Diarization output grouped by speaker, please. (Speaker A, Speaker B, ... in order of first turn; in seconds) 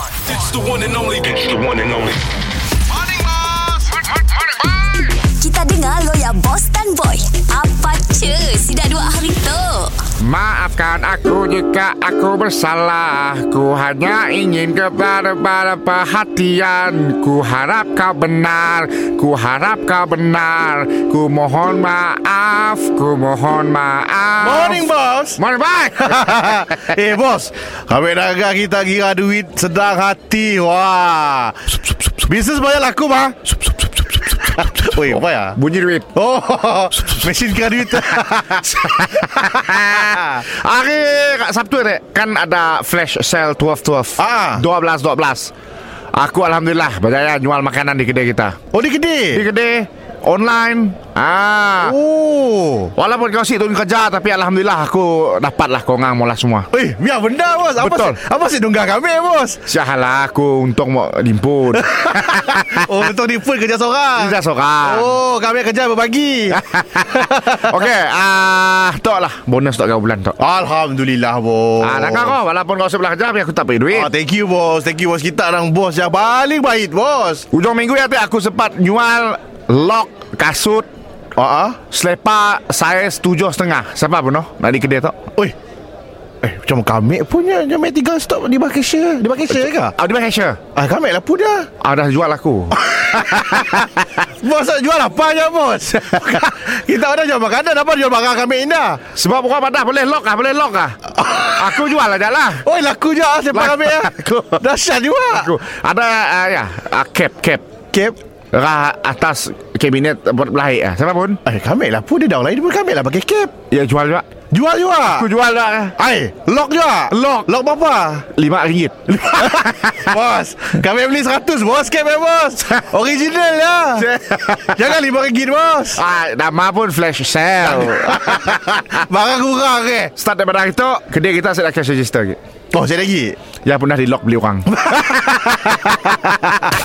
Speaker A: 0.2-2.3
Speaker B: 5.0-10.0
Speaker C: 10.2-26.9, 35.0-36.1, 38.1-45.5, 46.1-48.6, 49.3-52.0, 53.0-56.7, 57.8-58.2, 59.7-63.0, 64.2-65.2, 66.5-70.4, 71.8-74.1, 77.5-80.9, 81.9-85.2, 89.5-90.6, 91.8-93.9, 99.1-102.7, 103.5-104.2, 105.3-107.7, 108.5-111.4, 113.7-114.3, 115.1-116.0, 118.3-120.0, 124.0-125.0, 126.0-129.0, 130.2-132.4, 133.6-134.7
Speaker D: 24.4-25.4, 26.0-35.6, 36.1-38.7, 39.3-40.5, 44.2-44.6, 48.7-49.5, 51.8-52.9, 56.7-59.6, 61.7-67.7, 70.4-72.4, 73.9-77.5, 81.4-81.8, 86.4-90.0, 90.8-91.7, 92.9-99.0, 101.2-101.8, 102.6-105.5, 107.9-108.2, 111.5-113.5, 114.5-115.3, 116.0-118.3, 119.1-124.1, 124.7-126.0, 127.6-130.1, 132.7-133.4, 134.7-136.3